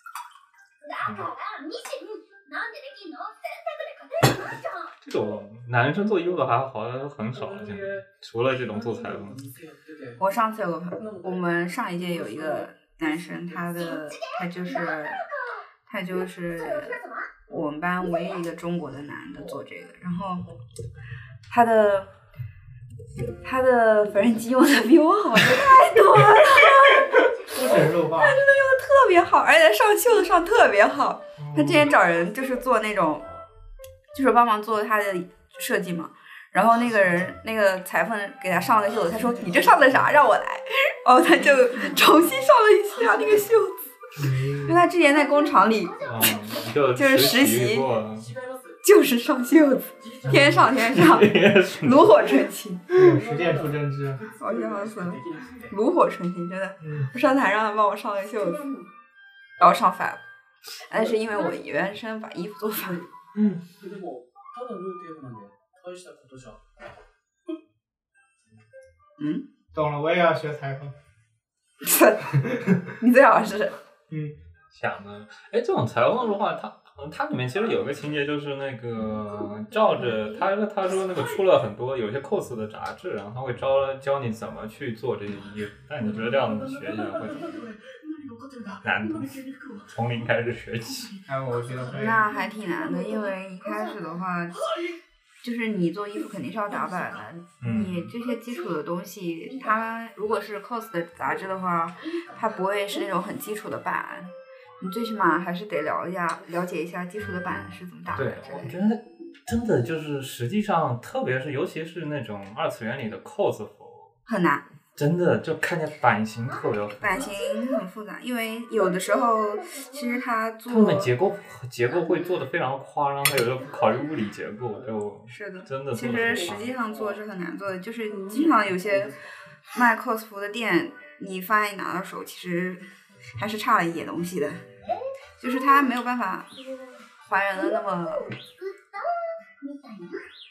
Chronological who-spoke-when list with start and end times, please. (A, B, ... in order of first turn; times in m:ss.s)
0:00.8-0:05.0 A
0:05.0-0:09.4 B
0:07.3-0:10.2 C
0:10.2-0:15.2 D
0:11.0-0:13.9 C
0:13.8-0:17.3 A
0:15.9-0:20.5 D
0:19.3-0:19.6 C
0:21.5-0:22.1 D
0:23.4-0:27.2 D
0:26.8-0:27.7 A
0:27.5-0:28.4 E
0:28.0-0:33.2 D
0:31.4-0:31.9 E
0:34.1-0:43.8 D
0:39.0-0:40.0 C
0:44.2-0:44.8 E
0:44.6-0:46.3 D
0:45.0-0:46.7 A
0:46.0-0:48.3 B
0:46.9-0:47.9 D
0:48.1-0:48.8 C
0:48.8-0:52.9 D
0:50.0-0:50.9 C
0:50.2-0:50.6 E
0:50.8-0:52.4 B
0:52.9-0:54.2 E
0:53.0-0:55.8 C
0:54.4-0:58.6 D
0:56.8-0:57.1 E
0:58.4-0:58.9 A
0:59.6-1:00.2 D
1:00.8-1:03.0 D
1:00.9-1:01.5 C
1:02.8-1:03.1 C
1:03.7-1:06.6 C
1:09.7-1:10.9 E
1:11.8-1:13.7 D
1:12.4-1:12.8 E
1:14.1-1:14.3 E
1:14.7-1:27.7 B
1:21.0-1:21.4 C
1:26.0-1:30.0 C
1:28.8-1:31.2 B
1:31.1-1:32.1 C
1:31.3-1:32.2 E
1:31.9-1:34.6 D
1:32.4-1:34.2 A
1:34.6-1:35.0 C
1:35.4-1:48.8 D
1:36.9-1:37.2 C
1:37.6-1:38.1 B
1:38.2-1:38.8 A
1:39.4-1:40.1 A
1:41.9-1:43.1 A
1:48.1-1:54.1 B
1:54.3-1:54.6 D
1:55.0-1:57.2 B
1:56.5-1:57.8 A
1:57.0-2:01.1 D
1:58.8-2:00.2 A
2:00.7-2:06.7 B
2:01.9-2:02.2 A
2:05.3-2:14.6 D
2:06.1-2:07.2 C
2:08.1-2:09.2 C
2:14.8-2:15.9 A
2:15.4-2:16.5 D
2:16.5-2:17.0 A
2:17.2-2:18.3 D
2:17.5-2:20.2 A